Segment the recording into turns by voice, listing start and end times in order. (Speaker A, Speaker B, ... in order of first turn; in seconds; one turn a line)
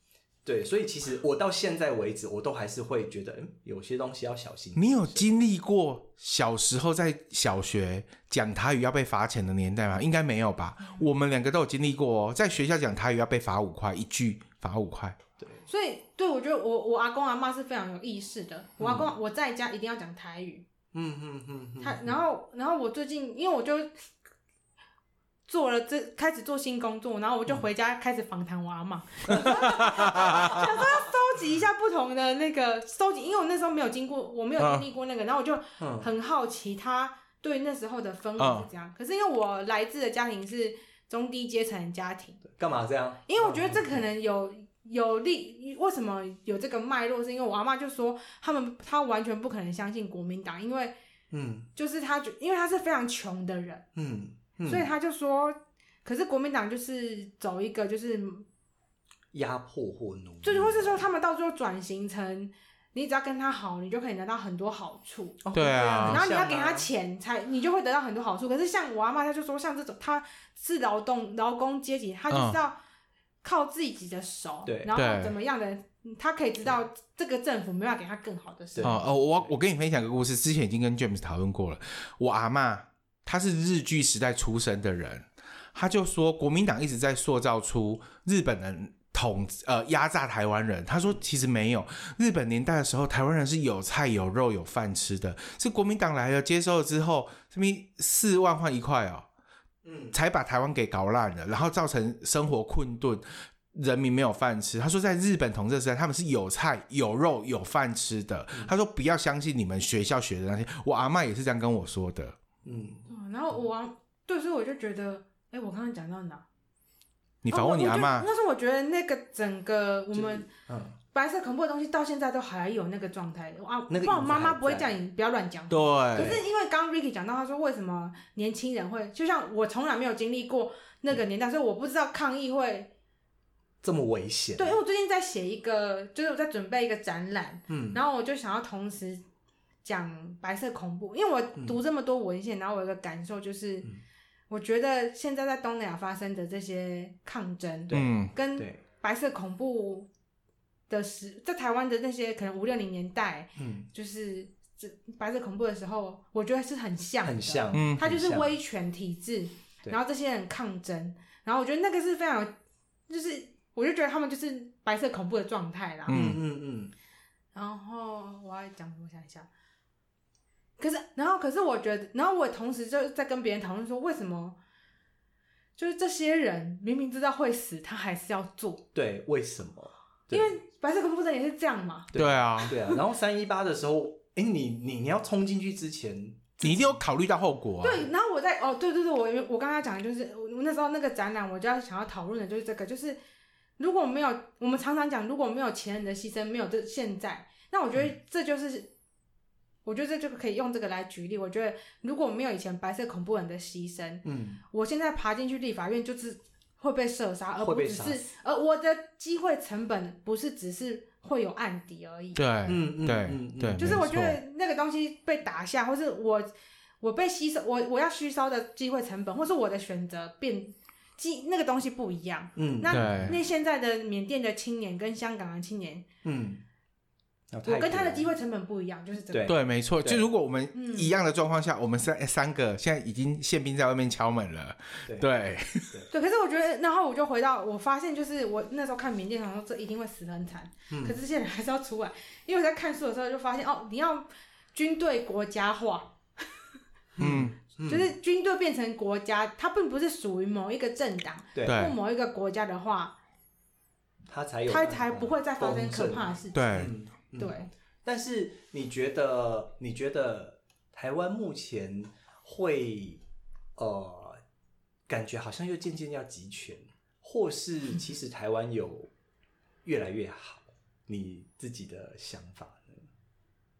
Speaker A: 0.5-5.3
Speaker B: 4.8-15.2
Speaker C: 15.7-20.7
Speaker A: 18.8-19.1
Speaker A: 20.9-22.2
Speaker C: 21.8-24.0
Speaker C: 25.5-42.4
Speaker B: 29.3-30.5
Speaker B: 34.6-34.9
Speaker A: 35.8-36.1
Speaker B: 38.4-38.7
Speaker A: 42.5-44.0
Speaker C: 43.3-51.0
Speaker A: 51.3-51.7
Speaker C: 51.8-53.9
Speaker A: 54.0-54.9
Speaker C: 54.7-58.5
Speaker A: 59.3-61.1
Speaker C: 60.4-72.8
Speaker A: 65.5-66.9
Speaker B: 65.5-66.2
Speaker B: 72.3-72.6
Speaker C: 73.4-79.0
Speaker A: 74.7-74.9
Speaker B: 74.9-75.3
Speaker A: 78.8-79.5
Speaker B: 78.8-99.3
Speaker A: 99.8-100.2
Speaker B: 100.1-112.4
Speaker A: 112.6-113.1
Speaker C: 113.1-116.5
Speaker B: 117.4-118.3
Speaker C: 117.5-120.5
Speaker A: 120.1-121.0
Speaker C: 121.1-132.9
Speaker A: 123.9-124.9
Speaker B: 125.7-126.4
Speaker A: 126.2-126.4
Speaker A: 133.8-134.8
Speaker C: 134.6-139.2
Speaker A: 137.7-138.0
Speaker C: 139.8-143.9
Speaker C: 144.5-150.1
Speaker A: 147.9-148.8
Speaker B: 147.9-148.3
Speaker C: 150.9-162.6
Speaker A: 153.6-153.9
Speaker A: 157.2-158.5
Speaker B: 157.7-158.0
Speaker C: 163.1-166.2
Speaker A: 166.1-166.9
Speaker B: 166.1-166.4
Speaker C: 167.5-169.5
Speaker C: 170.8-174.6
Speaker C: 175.8-178.8
Speaker A: 178.9-180.6
Speaker C: 180.3-182.9
Speaker A: 182.1-187.0
Speaker B: 182.2-182.8
Speaker B: 186.6-188.1
Speaker C: 187.8-193.2
Speaker C: 193.8-198.9
Speaker C: 199.8-212.4
Speaker A: 204.2-204.6
Speaker A: 207.6-208.2
Speaker B: 212.4-214.4
Speaker A: 212.7-214.0
Speaker C: 213.8-226.1
Speaker A: 222.6-223.4
Speaker B: 222.9-223.4
Speaker A: 226.2-226.6
Speaker A: 227.5-228.3
Speaker C: 227.6-229.5
Speaker A: 229.3-230.3
Speaker B: 229.5-236.0
Speaker C: 230.7-231.2
Speaker C: 236.1-246.2
Speaker A: 240.9-241.2
Speaker A: 247.2-248.1
Speaker B: 247.2-247.6
Speaker C: 247.9-253.2
Speaker A: 251.6-251.9
Speaker B: 251.7-251.9
Speaker A: 254.3-263.2
Speaker C: 254.7-256.9
Speaker B: 256.5-256.9
Speaker C: 257.4-257.7
Speaker A: 263.8-264.4
Speaker A: 265.1-269.1
Speaker A: 269.9-273.1